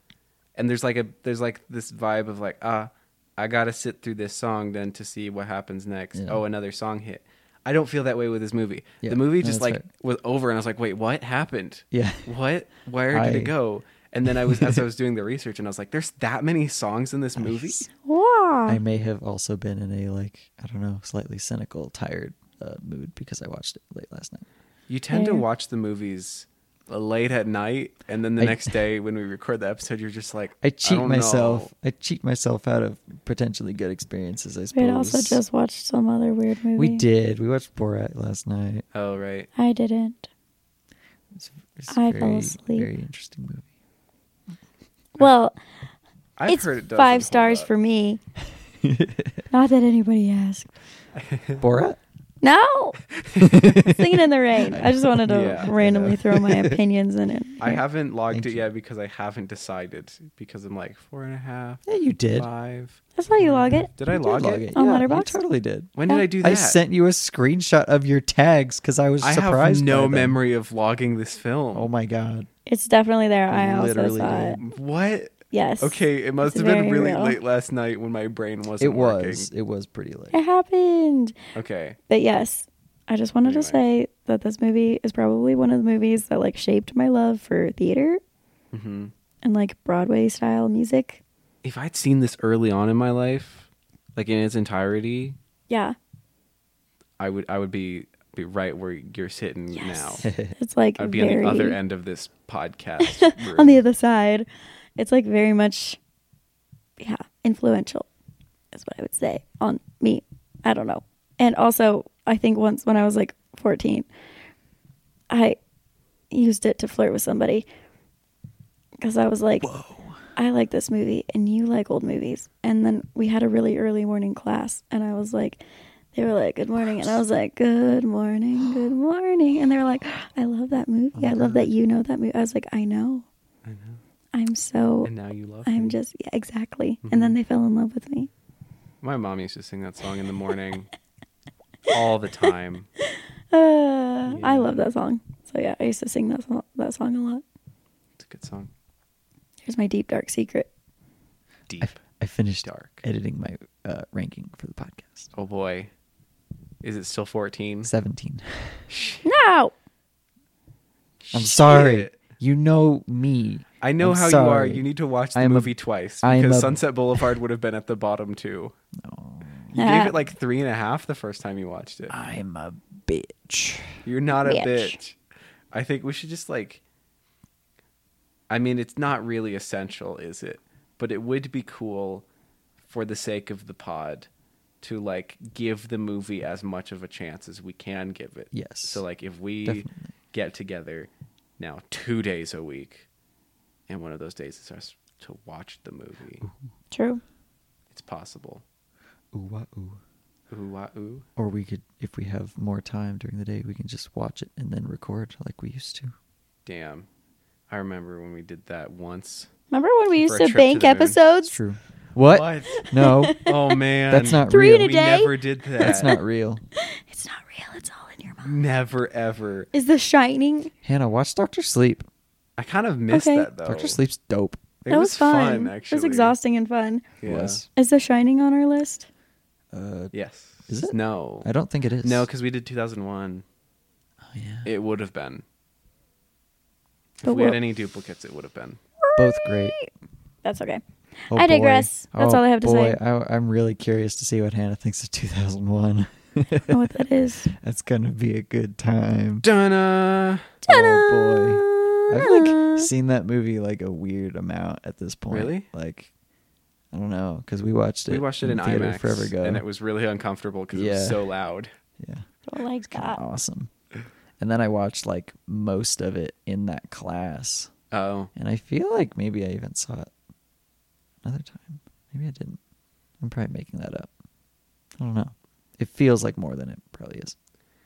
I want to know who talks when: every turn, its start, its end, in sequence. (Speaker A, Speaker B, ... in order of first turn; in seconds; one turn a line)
Speaker A: 0.6-17.9
Speaker B: 6.1-6.4
Speaker B: 9.0-9.8
Speaker B: 11.9-12.3
Speaker B: 13.1-13.5
Speaker B: 14.4-14.8
Speaker B: 17.4-17.8
Speaker C: 18.0-18.8
Speaker B: 18.7-24.5
Speaker A: 24.9-31.7
Speaker C: 25.1-25.4
Speaker B: 28.4-28.7
Speaker B: 30.6-35.4
Speaker C: 34.7-37.0
Speaker B: 36.8-38.9
Speaker A: 38.9-39.5
Speaker C: 39.5-40.3
Speaker B: 41.3-43.7
Speaker C: 41.9-42.9
Speaker C: 45.2-45.6
Speaker A: 46.4-47.7
Speaker C: 46.5-48.2
Speaker B: 48.8-49.5
Speaker C: 49.5-50.7
Speaker A: 51.1-51.6
Speaker B: 51.6-52.0
Speaker C: 52.4-53.0
Speaker A: 53.2-53.7
Speaker B: 53.4-56.8
Speaker C: 53.8-57.8
Speaker A: 55.2-55.7
Speaker A: 57.6-63.0
Speaker B: 58.3-58.6
Speaker B: 61.9-62.5
Speaker C: 63.1-65.4
Speaker B: 63.4-70.3
Speaker A: 63.9-64.7
Speaker A: 65.9-66.8
Speaker A: 69.2-71.9
Speaker B: 71.7-72.5
Speaker C: 72.7-74.6
Speaker B: 73.5-74.6
Speaker A: 74.6-79.5
Speaker C: 75.5-77.4
Speaker B: 78.8-80.4
Speaker C: 80.3-81.3
Speaker A: 81.5-82.0
Speaker C: 82.1-88.2
Speaker A: 83.4-83.8
Speaker A: 88.7-89.1
Speaker C: 89.4-91.2
Speaker A: 91.6-95.4
Speaker C: 95.7-96.0
Speaker A: 97.2-100.3
Speaker C: 99.7-101.8
Speaker B: 100.2-100.5
Speaker A: 101.0-103.8
Speaker C: 103.0-106.0
Speaker C: 107.0-108.1
Speaker C: 108.7-114.1
Speaker C: 115.3-115.6
Speaker C: 116.3-117.6
Speaker C: 119.0-119.7
Speaker B: 119.6-120.2
Speaker C: 120.3-125.6
Speaker C: 126.1-133.3
Speaker B: 126.8-127.2
Speaker B: 131.1-131.7
Speaker A: 133.6-134.0
Speaker C: 134.3-135.1
Speaker A: 135.0-135.9
Speaker C: 135.7-138.3
Speaker A: 137.0-137.4
Speaker A: 139.0-140.9
Speaker A: 141.9-142.9
Speaker C: 143.5-147.4
Speaker A: 144.3-144.8
Speaker A: 148.2-148.7
Speaker C: 149.6-150.7
Speaker A: 151.7-152.0
Speaker B: 151.8-155.3
Speaker A: 152.6-153.0
Speaker A: 155.3-155.9
Speaker A: 156.8-157.9
Speaker B: 157.8-158.8
Speaker A: 158.9-159.2
Speaker C: 159.2-159.7
Speaker A: 161.2-162.2
Speaker B: 161.3-165.7
Speaker A: 163.8-168.7
Speaker B: 166.2-167.3
Speaker B: 169.0-169.8
Speaker A: 169.7-172.2
Speaker C: 169.8-170.1
Speaker B: 172.1-174.0
Speaker A: 174.0-175.2
Speaker C: 174.4-174.9
Speaker A: 175.7-176.8
Speaker A: 178.5-182.2
Speaker A: 182.8-184.3
Speaker A: 184.8-193.0
Speaker B: 188.5-189.0
Speaker B: 189.6-190.1
Speaker A: 193.9-196.5
Speaker C: 196.9-197.2
Speaker A: 197.9-198.6
Speaker B: 199.3-200.0
Speaker A: 200.5-201.2
Speaker B: 201.4-206.1
Speaker A: 206.7-207.1
Speaker A: 207.7-209.5
Speaker C: 209.7-211.6
Speaker A: 210.2-211.2
Speaker B: 211.4-213.4
Speaker A: 212.2-212.8
Speaker C: 212.8-213.8
Speaker A: 213.4-216.2
Speaker B: 214.1-214.9
Speaker C: 214.5-216.1
Speaker B: 215.8-216.6
Speaker C: 216.8-218.6
Speaker A: 218.4-219.7
Speaker C: 219.7-220.7
Speaker B: 220.8-222.1
Speaker A: 222.6-224.0
Speaker C: 223.1-223.5
Speaker B: 223.6-224.6
Speaker A: 224.8-226.3
Speaker C: 224.9-227.0
Speaker A: 227.2-227.6
Speaker B: 227.2-227.7
Speaker C: 227.8-229.1
Speaker B: 229.7-230.1
Speaker A: 230.1-231.5
Speaker B: 230.7-232.2
Speaker A: 232.0-233.4
Speaker B: 234.3-234.7
Speaker A: 234.7-235.4
Speaker A: 237.2-238.8
Speaker C: 237.2-237.6
Speaker C: 239.0-239.9
Speaker B: 239.2-239.7
Speaker C: 240.4-243.0
Speaker B: 241.3-246.9
Speaker C: 246.7-247.5
Speaker B: 247.4-249.4
Speaker A: 249.4-250.5
Speaker C: 250.6-252.9
Speaker B: 250.7-256.1
Speaker A: 255.3-255.7
Speaker B: 256.9-259.6
Speaker A: 258.1-261.7
Speaker B: 260.7-261.2
Speaker B: 262.0-262.3
Speaker C: 262.5-263.2
Speaker B: 262.9-263.7
Speaker B: 264.4-267.7
Speaker A: 267.9-268.3
Speaker B: 268.3-270.1
Speaker B: 271.2-272.6
Speaker B: 273.2-274.1
Speaker B: 275.0-277.4